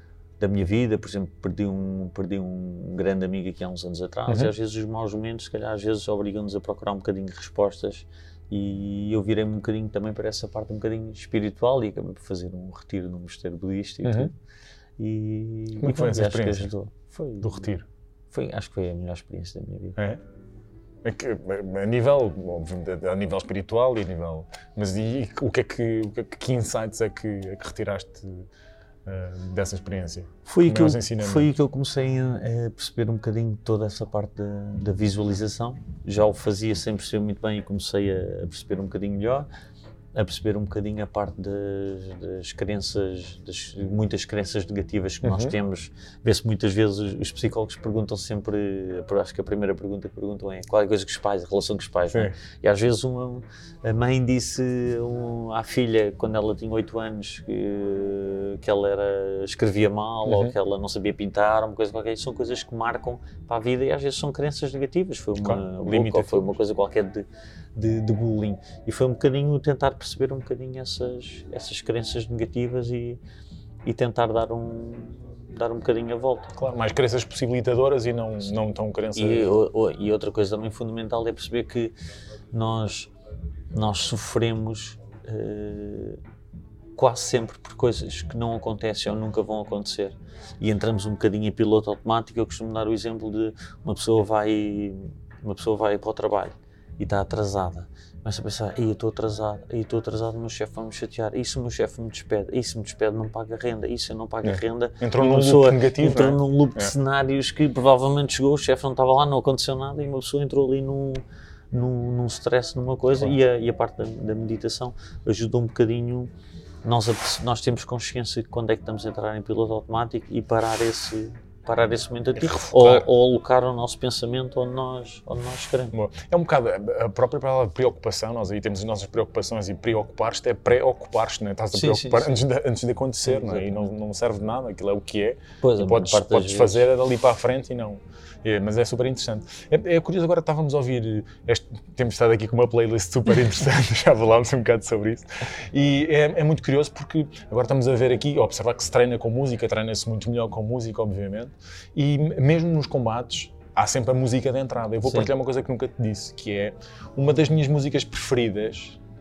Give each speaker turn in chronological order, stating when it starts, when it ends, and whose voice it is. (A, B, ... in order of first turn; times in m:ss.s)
0:00.4-0:14.3 A
0:04.3-0:04.5 B
0:14.0-0:14.3 B
0:15.0-0:17.7 A
0:15.8-0:16.7 B
0:17.4-0:17.8 B
0:18.3-0:20.0 A
0:21.0-0:28.5 B
0:29.0-0:31.5 B
0:30.4-0:39.5 A
0:40.1-1:13.2 A
0:45.2-0:45.5 B
1:00.3-1:00.5 B
1:05.4-1:06.5 B
1:13.8-1:16.5 A
1:16.6-1:19.5 B
1:19.1-1:21.9 A
1:22.5-1:23.1 A
1:23.7-1:26.2 A
1:27.0-1:56.3 A
1:44.4-1:46.9 B
1:56.8-2:05.9 A
2:02.4-2:03.1 B
2:05.9-2:39.0 B
2:11.7-2:12.3 A
2:13.2-2:13.8 A
2:15.6-2:16.9 A